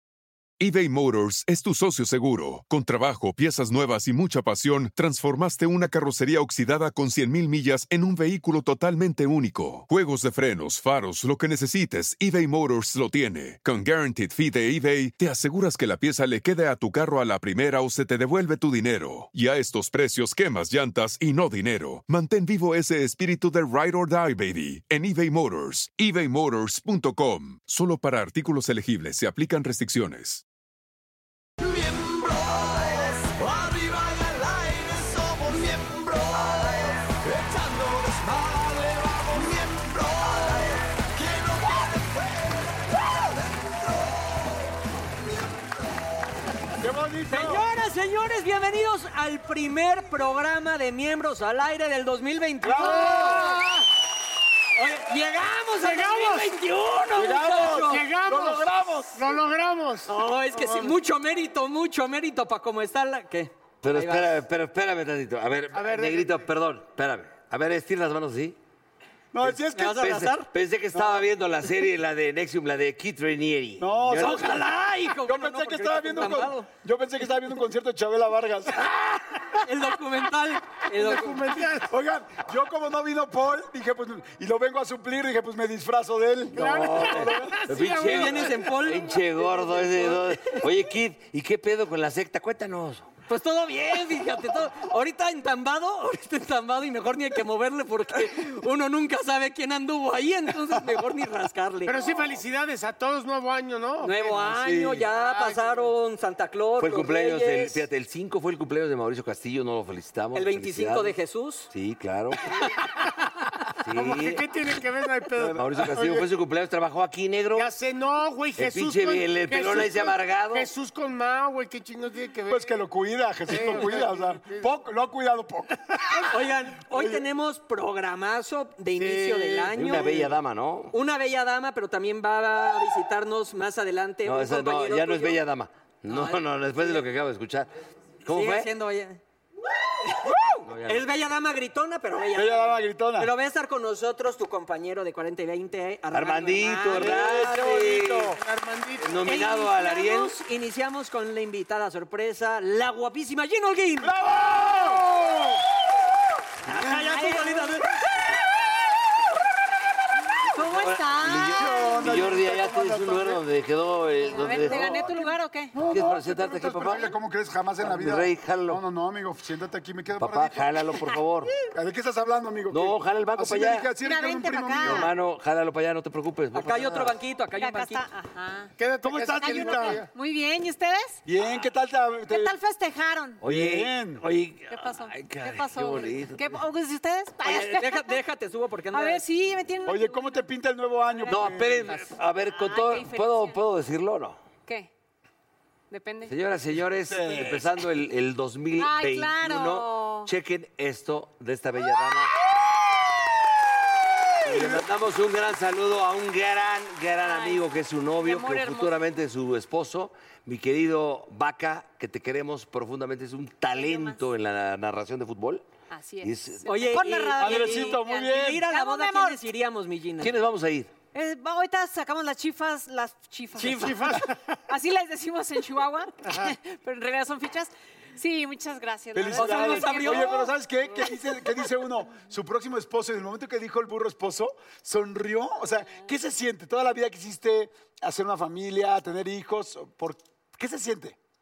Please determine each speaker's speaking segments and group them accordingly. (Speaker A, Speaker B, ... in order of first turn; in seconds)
Speaker A: 0.6-30.4
Speaker B: 31.6-44.5, 45.2-45.8
Speaker C: 46.8-47.6, 52.6-53.6, 57.1-59.2, 69.3-70.3, 70.9-71.3, 73.8-78.8, 81.8-87.6, 115.9-116.2, 122.5-126.3, 126.9-127.2, 140.2-140.5, 142.3-143.3, 154.0-155.6, 156.8-157.1, 161.2-163.4, 164.5-165.0, 165.7-170.8, 171.7-175.1, 179.0-180.0, 181.2-182.5, 183.4-184.2, 189.8-191.9, 197.1-197.7, 204.5-204.8, 217.4-218.6, 229.1-241.2
Speaker D: 47.3-53.6, 54.8-58.0, 60.1-64.4, 69.7-70.5, 74.2-76.7, 79.6-81.6, 87.9-89.1, 93.3-102.0, 104.0-107.8, 110.3-111.7, 126.1-130.2, 130.9-135.4, 136.1-137.0, 138.3-139.2, 140.8-147.8, 149.2-154.1, 156.7-158.1, 176.5-178.1, 187.4-189.2, 216.6-220.3, 223.6-224.0, 229.3-230.5
Speaker E: 52.7-53.8, 55.8-56.5, 57.6-60.9, 65.7-66.4, 80.9-81.9, 86.5-88.8, 89.4-90.6, 101.8-105.9, 113.9-116.1, 117.5-122.8, 123.5-124.7, 128.9-130.3, 146.9-149.3, 178.8-180.1, 223.8-224.4
Speaker F: 63.8-68.6, 69.4-74.5, 86.5-93.1, 106.8-111.1, 111.7-112.5, 113.8-114.4, 115.4-117.7, 118.5-120.7, 129.7-130.9, 134.2-137.7, 138.2-138.7, 140.6-141.1, 146.1-148.4, 149.0-150.3, 160.6-165.1, 165.8-167.1, 167.8-168.8, 170.2-171.5, 172.7-173.9, 174.8-177.1, 183.4-186.5, 191.3-194.4, 196.3-202.3, 204.4-215.7, 216.2-216.7, 220.2-220.9
Speaker G: 157.0-157.7, 160.5-162.1, 164.3-165.8, 174.0-175.1, 177.5-178.7, 179.4-181.2, 182.3-183.4, 184.7-188.2, 188.9-190.5, 191.1-191.5, 192.4-193.6, 194.7-194.9, 195.9-196.3, 198.7-200.3, 207.2-207.6, 208.2-209.0, 213.7-214.2, 215.9-219.4, 221.1-230.5